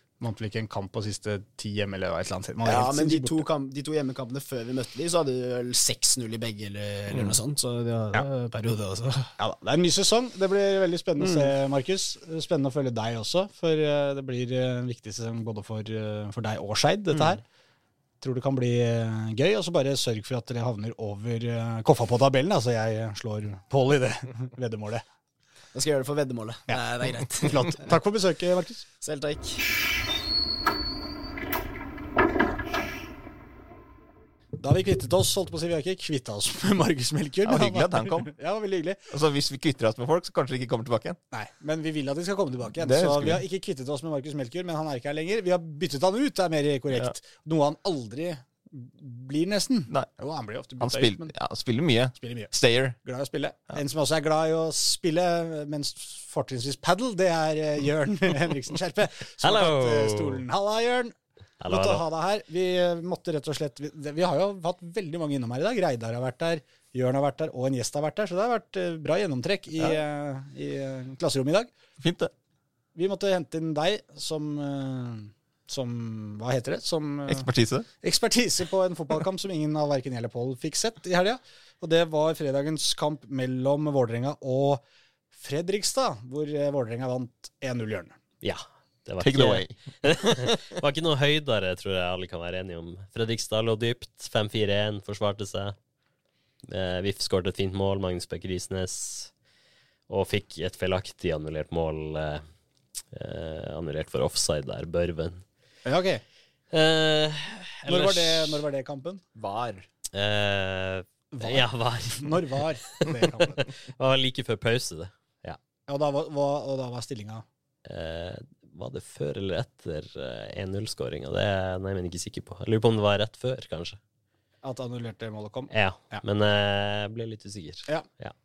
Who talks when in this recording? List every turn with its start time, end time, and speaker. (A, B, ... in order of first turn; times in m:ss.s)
0:00.2-0:03.4 A
0:02.6-0:09.3 B
0:09.4-0:17.4 A
0:11.2-0:11.5 B
0:17.1-0:17.4 B
0:18.2-0:25.0 A
0:25.7-0:28.0 B
0:27.4-0:28.8 A
0:29.0-0:29.7 B
0:34.6-0:39.0 A
0:37.4-0:38.3 C
0:39.1-0:41.2 C
0:41.3-0:51.3 A
0:42.8-0:43.4 C
0:50.8-0:53.0 C
0:52.2-0:52.5 A
0:53.0-1:11.7 A
0:59.4-1:00.4 D
1:01.6-1:02.0 D
1:12.0-1:12.3 C
1:12.9-1:17.5 A
1:17.3-1:17.9 C
1:18.0-1:24.8 A
1:25.3-1:28.2 A
1:28.4-1:35.8 D
1:29.2-1:30.6 C
1:36.7-1:39.3 D
1:40.1-1:42.4 D
1:43.1-1:45.4 D
1:45.8-1:46.2 A
1:46.7-1:48.6 D
1:47.8-1:49.2 A
1:49.4-1:49.8 C
1:50.1-1:55.6 D
1:51.4-1:53.6 A
1:55.9-1:57.4 A
1:57.8-2:04.0 D
2:04.6-2:06.2 A
2:05.7-2:08.3 D